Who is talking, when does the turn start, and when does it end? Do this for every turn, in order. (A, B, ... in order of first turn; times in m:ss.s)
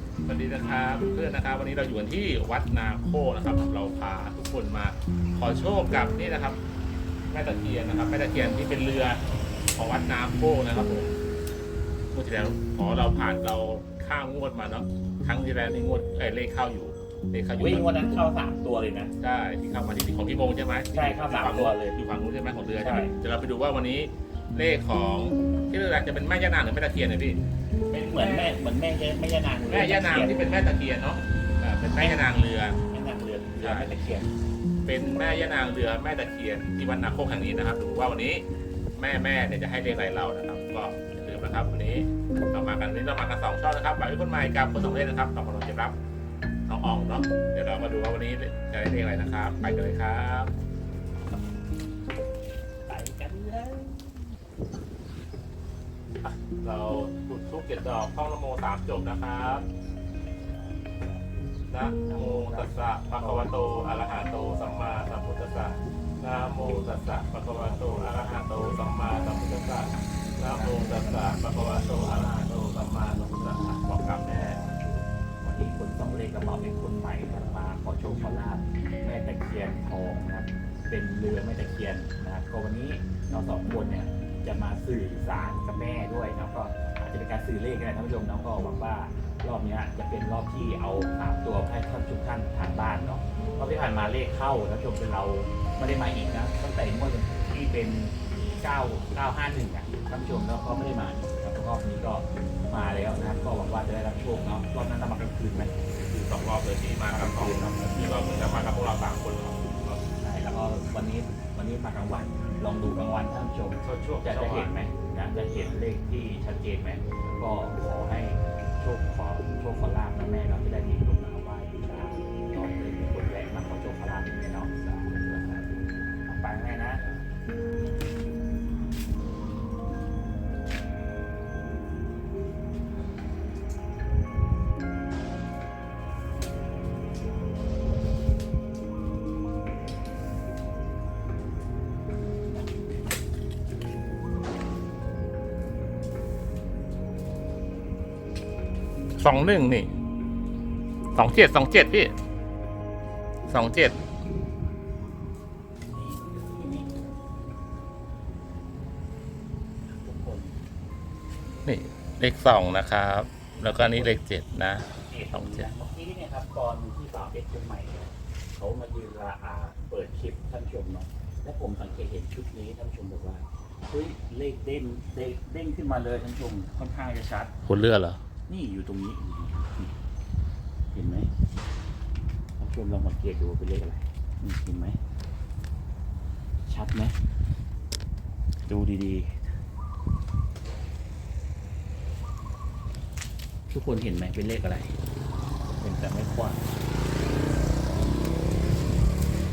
0:00.2-0:06.6 A
0:07.3-0:09.2 A
0:09.7-0:11.2 A
0:12.1-0:17.9 A
0:17.6-0:19.1 B
0:19.2-0:27.4 A
0:20.9-0:22.0 B
0:22.8-0:23.1 B
0:27.9-0:28.6 A
0:28.0-0:30.5 B
0:29.7-0:32.8 A
0:32.9-0:34.3 B
0:33.6-0:33.9 A
0:34.8-0:38.4 A
0:39.0-0:46.0 A
0:46.7-0:50.5 A
0:52.9-0:54.4 B
0:56.2-0:59.6 A
1:00.6-1:01.2 B
1:01.7-1:14.6 A
1:02.0-1:03.5 B
1:06.5-1:09.8 B
1:10.4-1:45.8 B
1:46.0-1:50.0 A
1:47.1-1:48.5 B
1:50.2-2:05.7 B
1:53.8-1:54.7 A
2:06.2-2:07.0 B
2:29.2-2:29.9 A
2:31.1-2:32.1 A
2:33.5-2:34.0 A
2:35.9-2:36.9 B
2:39.9-2:40.5 B
2:41.6-2:45.7 A
2:43.6-2:44.1 B
2:45.0-2:57.5 B
2:57.6-2:58.2 A
2:58.5-2:59.9 B
3:00.9-3:01.3 B
3:02.6-3:05.0 B
3:06.6-3:07.2 B
3:08.7-3:09.5 B
3:13.7-3:15.0 B
3:15.8-3:16.6 B